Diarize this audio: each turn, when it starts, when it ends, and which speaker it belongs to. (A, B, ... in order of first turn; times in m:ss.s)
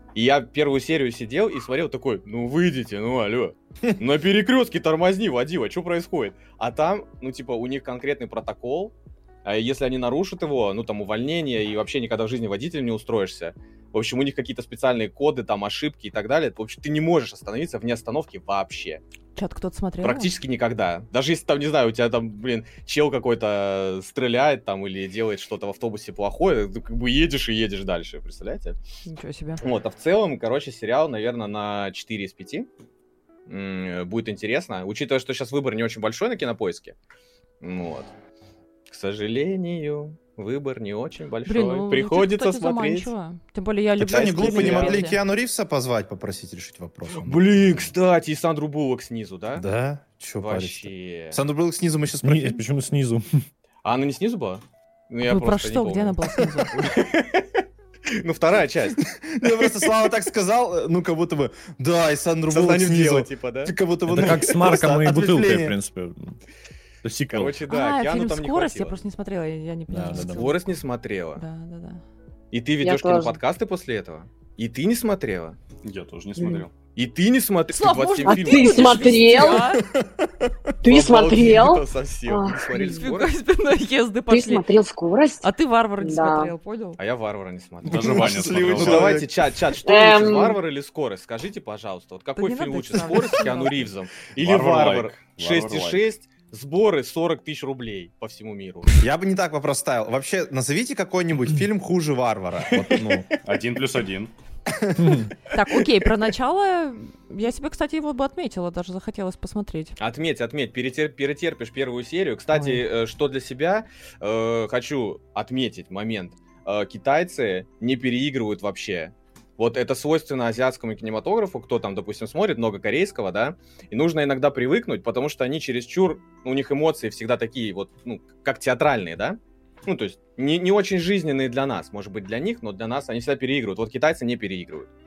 0:00.1-0:08.9 A
0:09.4-0:19.0 A
0:19.4-0:20.3 B
0:20.0-0:28.8 A
0:29.0-0:29.6 B
0:29.6-0:32.7 A
0:33.5-0:36.9 A
0:37.6-0:38.1 A
0:38.9-0:43.1 A
0:41.4-0:45.2 B
0:44.0-0:47.9 C
0:44.0-0:45.1 A
0:47.1-0:49.6 A
0:49.6-0:52.6 C
0:50.4-0:51.4 A
0:52.2-0:53.4 D
0:53.8-1:00.1 A
0:55.2-0:56.7 B
0:59.0-1:05.8 C
1:02.5-1:03.7 A
1:04.0-1:06.4 D
1:07.0-1:07.6 D
1:07.3-1:09.0 A
1:07.7-1:10.6 B
1:09.9-1:10.5 D
1:10.1-1:11.4 A
1:11.4-1:12.0 B
1:12.5-1:15.6 A
1:12.8-1:13.4 E
1:15.8-1:16.7 F
1:16.4-1:16.6 E
1:16.9-1:19.4 A
1:17.7-1:19.8 B
1:18.2-1:19.8 E
1:19.7-1:20.6 C
1:20.8-1:23.0 E
1:20.8-1:23.3 A
1:22.7-1:24.6 B
1:24.3-1:25.5 E
1:25.4-1:27.0 B
1:26.0-1:26.5 E
1:27.0-1:39.0 A
1:27.8-1:29.3 F
1:27.8-1:29.3 C
1:29.8-1:30.6 E
1:32.4-1:33.9 B
1:34.4-1:36.0 F
1:39.0-1:43.3 C
1:43.4-1:44.3 F
1:44.7-1:45.3 C
1:45.0-1:45.3 D
1:45.5-1:50.0 B
1:50.0-2:14.9 A
1:52.5-1:52.8 B